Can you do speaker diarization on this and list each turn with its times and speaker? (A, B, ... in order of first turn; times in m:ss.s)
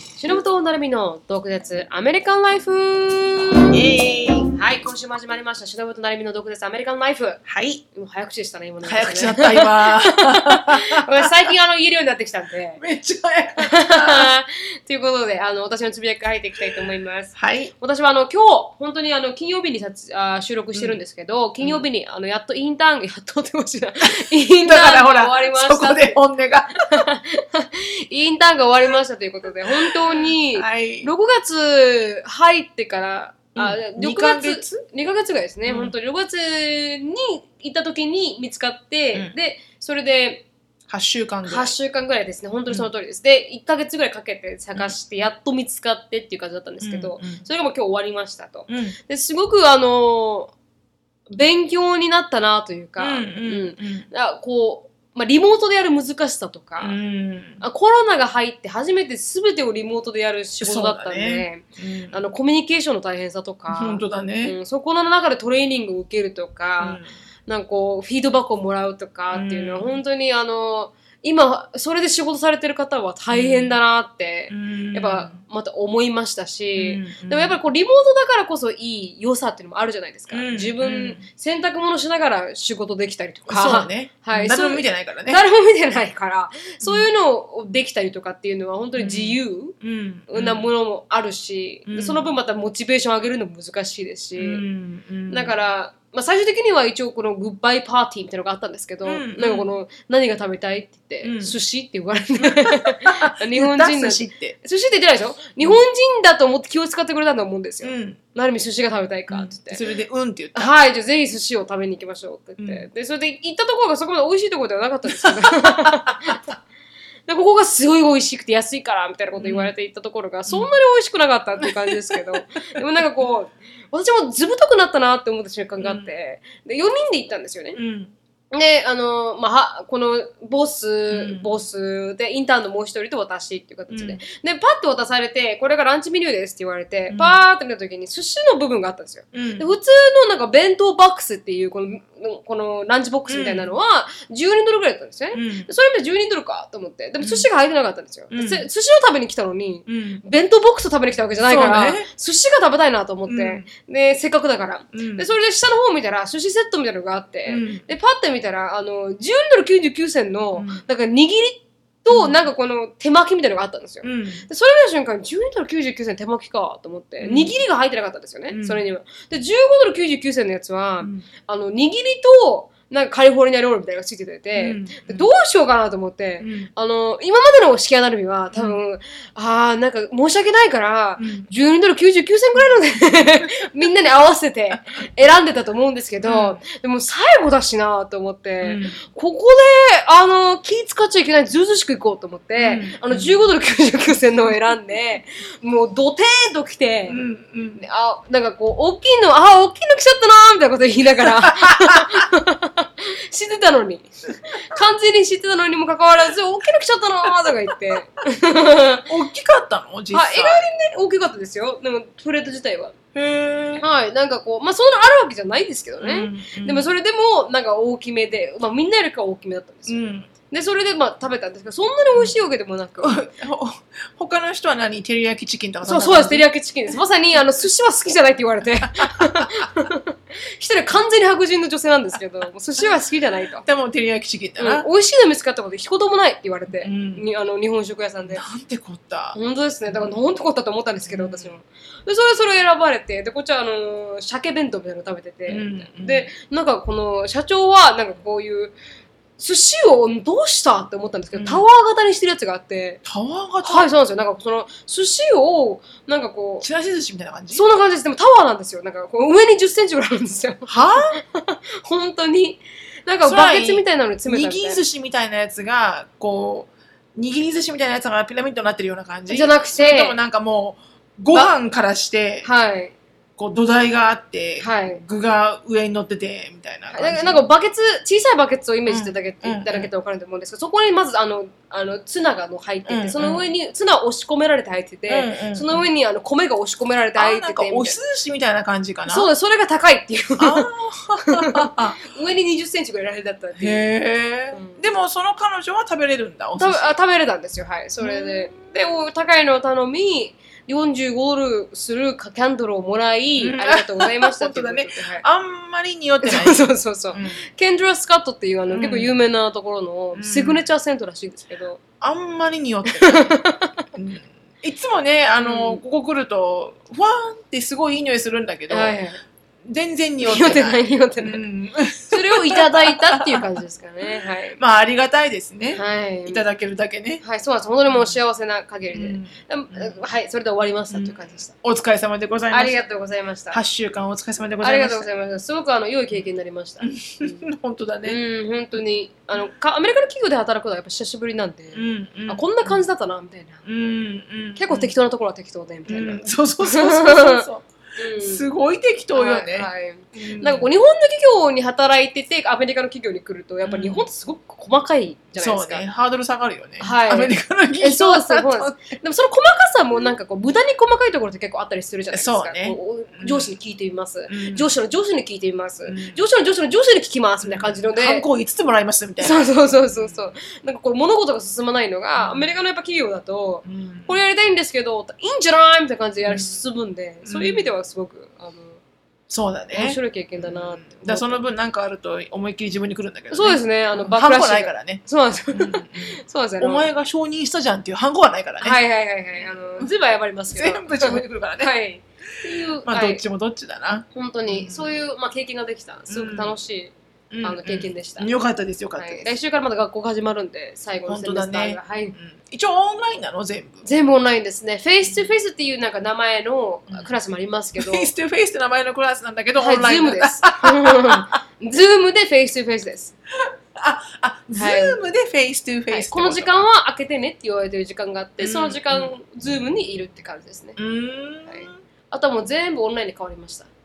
0:00.2-0:03.8 A
0:03.7-0:04.5 B
0:04.5-0:12.8 A
0:07.4-0:07.8 B
0:08.8-0:11.5 B
0:12.8-0:14.3 B
0:13.6-0:26.2 A
0:17.3-0:17.7 B
0:21.6-0:21.8 B
0:24.0-0:27.0 B
0:26.9-0:40.4 A
0:29.6-0:31.1 B
0:33.5-0:34.8 B
0:35.6-0:35.9 B
0:40.9-0:41.8 B
0:41.4-0:50.5 A
0:46.8-0:47.4 B
0:48.7-0:49.0 B
0:51.3-0:57.0 A
0:53.0-0:54.1 B
0:56.8-0:57.6 B
0:57.6-1:29.8 A
1:00.6-1:02.2 B
1:03.7-1:04.5 B
1:06.8-1:07.1 B
1:09.3-1:10.0 B
1:13.3-1:13.8 B
1:14.5-1:15.4 B
1:16.8-1:17.6 B
1:20.3-1:21.2 B
1:23.5-1:25.4 B
1:26.8-1:27.1 B
1:29.0-1:30.7 B
1:30.3-1:34.6 A
1:31.8-1:32.3 B
1:34.4-1:35.5 B
1:35.3-1:49.8 A
1:39.0-1:39.7 B
1:41.2-1:41.6 B
1:42.4-1:44.5 B
1:47.8-1:48.2 B
1:49.3-1:50.7 B
1:50.5-1:56.5 A
1:52.6-1:52.9 B
1:55.1-1:56.4 B
1:57.3-2:07.8 A
1:59.4-1:59.7 B
2:00.5-2:00.7 B
2:01.6-2:02.4 B
2:05.8-2:06.1 B
2:07.7-2:08.1 B
2:08.5-3:17.2 A
2:11.1-2:11.5 B
2:13.9-2:14.2 B
2:17.1-2:17.4 B
2:19.3-2:19.7 B
2:23.3-2:23.7 B
2:25.3-2:25.7 B
2:27.2-2:27.4 B
2:28.3-2:28.7 B
2:29.9-2:30.2 B
2:31.4-2:32.1 B
2:33.3-2:33.7 B
2:34.9-2:35.3 B
2:37.5-2:37.8 B
2:40.5-2:40.8 B
2:42.1-2:42.4 B
2:44.0-2:44.5 B
2:47.2-2:47.6 B
2:48.5-2:48.8 B
2:54.5-2:55.3 B
2:56.4-2:56.7 B
3:01.2-3:01.5 B
3:06.2-3:06.6 B
3:08.6-3:09.0 B
3:12.6-3:13.4 B
3:17.1-3:17.8 B
3:17.8-3:29.1 A
3:21.2-3:22.2 B
3:29.0-3:30.7 B
3:30.1-3:33.0 A
3:33.1-3:33.8 B
3:33.8-3:43.2 A
3:36.0-3:36.9 B
3:39.9-3:40.3 B
3:43.0-3:46.5 B
3:45.8-3:53.6 A
3:49.0-3:49.7 B
3:53.6-3:54.9 B
3:54.6-3:58.4 A
3:56.8-3:57.2 B
3:58.3-3:59.4 B
3:59.3-4:08.7 A
3:59.9-4:00.2 B
4:01.1-4:01.6 B
4:05.5-4:06.3 B
4:09.4-4:13.0 A
4:11.3-4:11.6 B
4:13.0-4:13.9 B
4:13.6-4:16.7 A
4:16.6-4:17.6 B
4:17.5-4:24.8 A
4:20.7-4:21.1 B
4:23.2-4:32.5 B
4:29.3-4:30.2 A
4:32.4-4:32.9 A
4:33.4-4:37.4 B
4:34.6-4:35.0 A
4:36.9-4:48.0 A
4:38.9-4:39.9 B
4:42.9-4:43.5 B
4:45.1-4:45.9 B
4:47.2-4:49.3 B
4:49.1-4:50.7 A
4:50.4-4:52.0 B
4:51.3-4:53.8 A
4:53.6-4:56.9 B
4:54.5-4:54.8 A
4:56.6-5:05.2 A
4:58.0-4:58.7 B
5:03.4-5:07.4 B
5:06.2-5:11.8 A
5:08.7-5:09.2 B
5:10.1-5:10.6 B
5:12.0-5:13.4 B
5:12.9-5:13.8 A
5:13.9-5:19.0 B
5:15.4-5:15.8 A
5:18.7-5:19.2 A
5:19.6-5:23.4 B
5:20.2-5:21.5 A
5:22.1-5:24.6 A
5:24.6-5:27.2 B
5:25.7-5:26.4 A
5:27.2-5:31.5 A
5:27.9-5:28.2 B
5:28.9-5:30.0 B
5:30.9-5:32.8 B
5:32.5-5:33.6 A
5:33.5-5:35.1 B
5:34.6-5:37.4 A
5:36.8-5:38.2 B
5:38.0-5:43.6 A
5:41.7-5:42.8 B
5:43.6-5:44.9 B
5:44.6-5:47.4 A
5:45.9-5:47.6 B
5:48.0-5:48.4 A
5:48.2-5:50.7 B
5:49.1-5:55.8 A
5:53.6-5:54.0 B
5:55.4-5:59.0 B
5:56.8-6:08.2 A
6:02.1-6:03.5 B
6:04.3-6:04.7 B
6:05.8-6:06.2 B
6:07.4-6:10.3 B
6:09.2-6:18.8 A
6:12.2-6:12.5 B
6:13.6-6:14.2 B
6:16.2-6:16.6 B
6:17.2-6:17.7 B
6:19.3-6:28.8 B
6:19.7-6:21.4 A
6:23.3-6:26.9 A
6:28.6-6:33.2 A
6:29.4-6:29.9 B
6:30.5-6:31.7 B
6:32.8-6:35.0 B
6:34.1-6:38.3 A
6:36.1-6:36.5 B
6:37.3-6:39.3 B
6:39.0-6:42.1 A
6:41.1-6:43.8 B
6:43.8-6:48.1 A
6:45.0-6:45.3 B
6:47.8-6:51.4 B
6:49.6-6:53.1 A
6:53.4-6:56.6 B
6:54.5-6:55.0 A
6:55.9-7:00.8 A
6:58.4-6:59.1 B
7:00.8-7:01.8 B
7:01.5-7:03.7 A